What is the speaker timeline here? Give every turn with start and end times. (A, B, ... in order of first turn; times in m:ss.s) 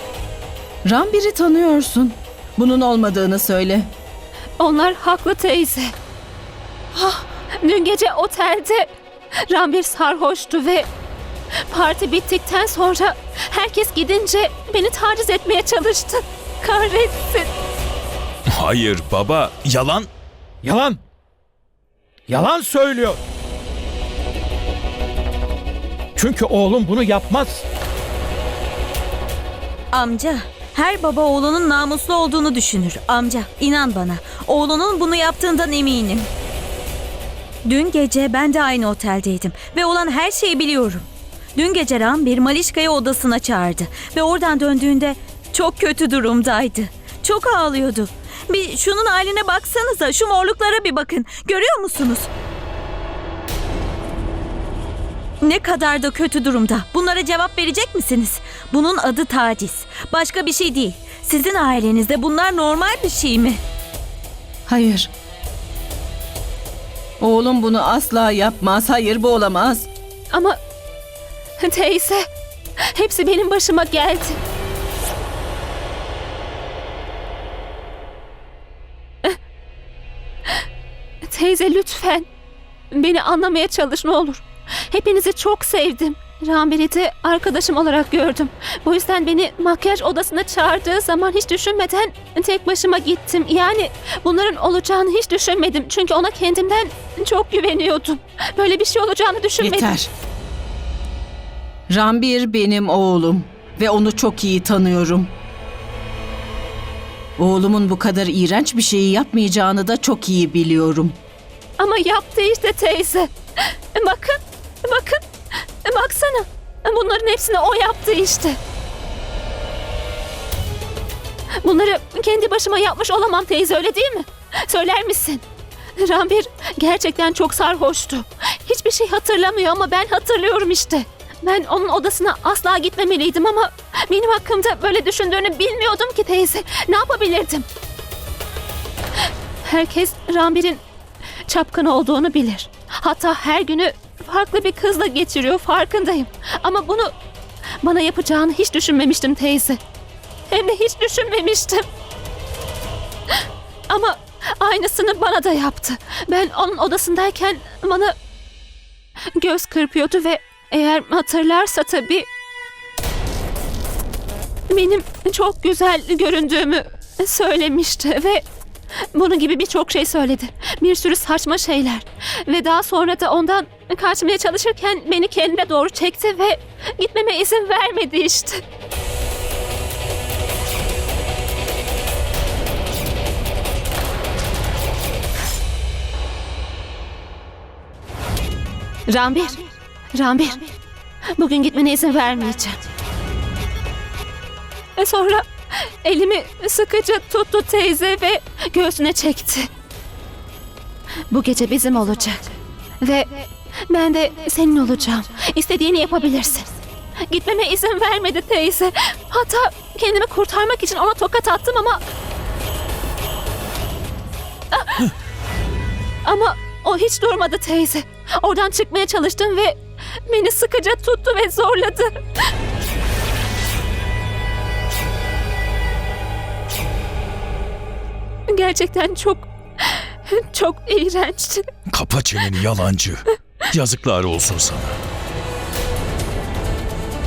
0:00.8-0:03.9 A
0:04.6-0:05.9 B
0:06.9-0:08.9 B
0:09.5-0:10.9 B
0:11.7-0:17.5 B
0:18.5-0:20.1 C
0:20.6-0:21.0 D
0:22.3-0:23.2 D
0:26.2-0:27.6 D
0:29.9-0:36.3 E
0:37.6-0:52.3 E
0:55.4-1:03.6 E
1:04.7-1:05.1 A
1:07.2-1:09.9 A
1:10.3-1:10.6 B
1:11.6-1:12.2 B
1:13.0-1:14.4 B
1:21.2-1:22.2 B
1:22.9-1:40.0 B
1:39.6-1:40.1 A
1:41.9-1:45.3 A
1:47.4-1:51.2 A
1:51.8-1:53.3 B
1:54.0-1:55.2 B
1:55.8-1:58.6 B
2:01.6-2:05.4 B
2:06.0-2:17.7 B
2:19.6-2:20.8 B
2:21.5-2:27.1 B
2:27.8-2:29.8 B
2:30.5-2:31.8 B
2:33.9-2:38.2 B
2:39.4-2:42.3 B
2:44.7-2:48.4 B
2:49.1-2:58.6 B
3:09.1-3:10.7 B
3:11.4-3:12.8 B
3:15.0-3:15.5 B
3:16.0-3:19.7 B
3:21.3-3:26.7 B
3:27.3-3:32.0 B
3:34.7-3:35.0 B
3:36.2-3:42.2 B
3:48.5-3:51.6 B
3:51.9-3:55.0 C